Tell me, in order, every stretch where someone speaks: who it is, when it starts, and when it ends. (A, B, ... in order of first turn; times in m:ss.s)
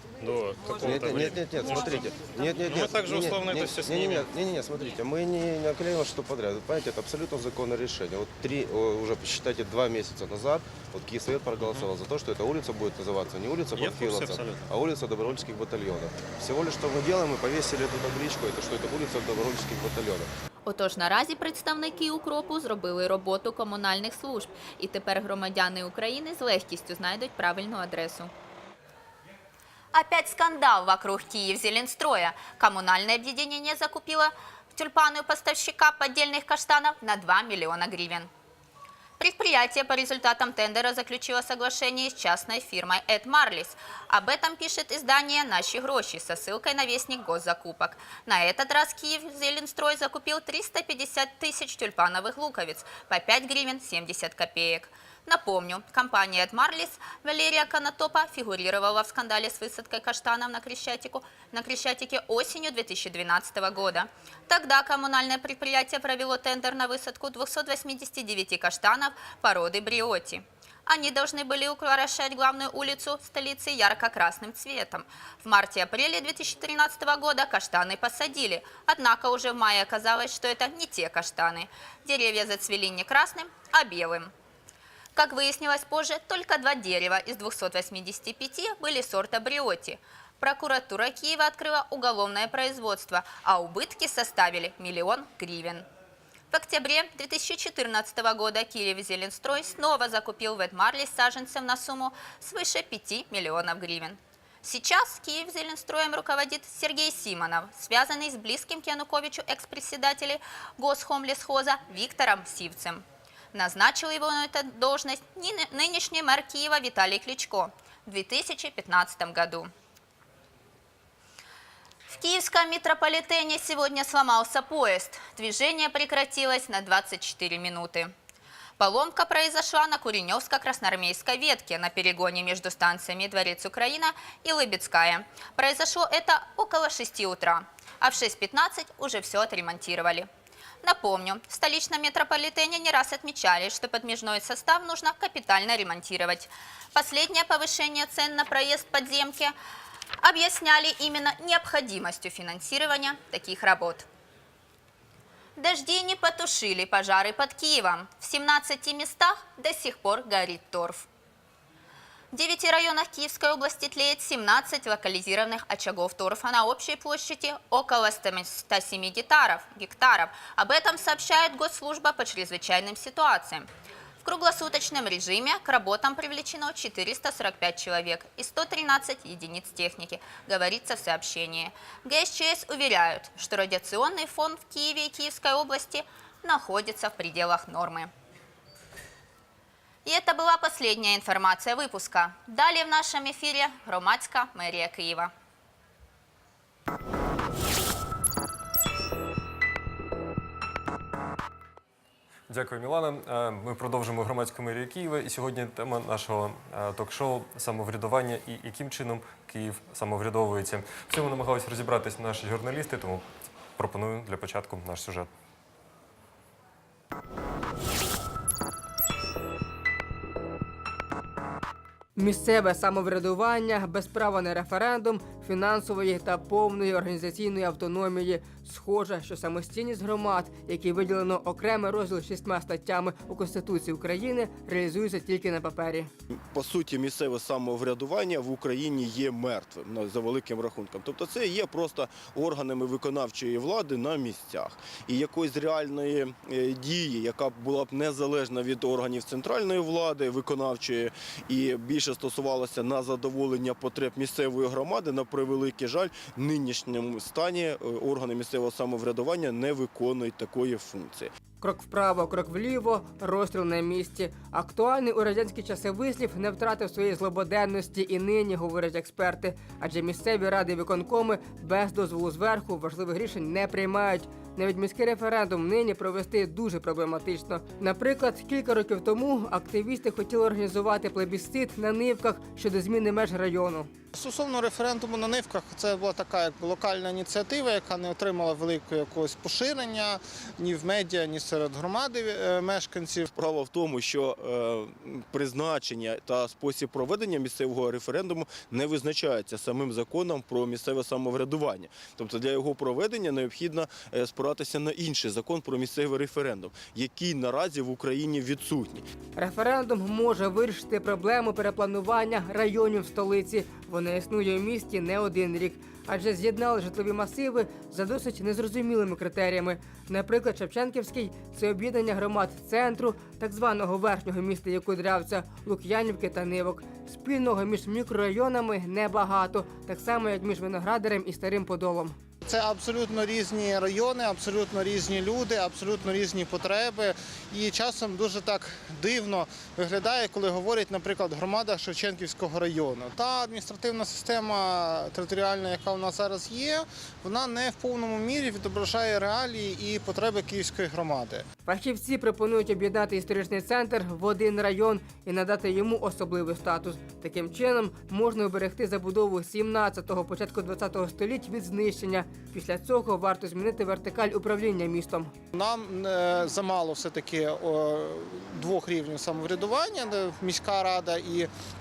0:00.2-0:02.2 A
0:00.8-0:20.3 B
0:02.7-0:04.3 A
0:13.8-0:14.7 A
0:20.6-0:28.3 C
0:29.9-0:38.3 C
0:39.2-1:24.3 C
1:25.2-1:35.9 C
1:36.5-1:59.7 C
2:02.1-2:08.1 C
2:08.8-2:20.3 C
2:20.8-2:29.5 C
2:30.2-2:34.1 C
2:35.6-2:41.1 C
2:42.3-2:53.7 C
2:54.2-3:08.1 C
3:10.0-3:15.3 C
3:22.5-3:35.3 D
3:42.2-3:56.1 E
3:56.5-4:21.3 F
4:21.6-4:43.9 E
4:44.2-4:53.3 G
4:53.3-5:09.0 F
5:09.4-5:32.2 E
5:32.4-5:51.5 G
5:51.7-6:05.3 E
6:05.5-6:11.5 G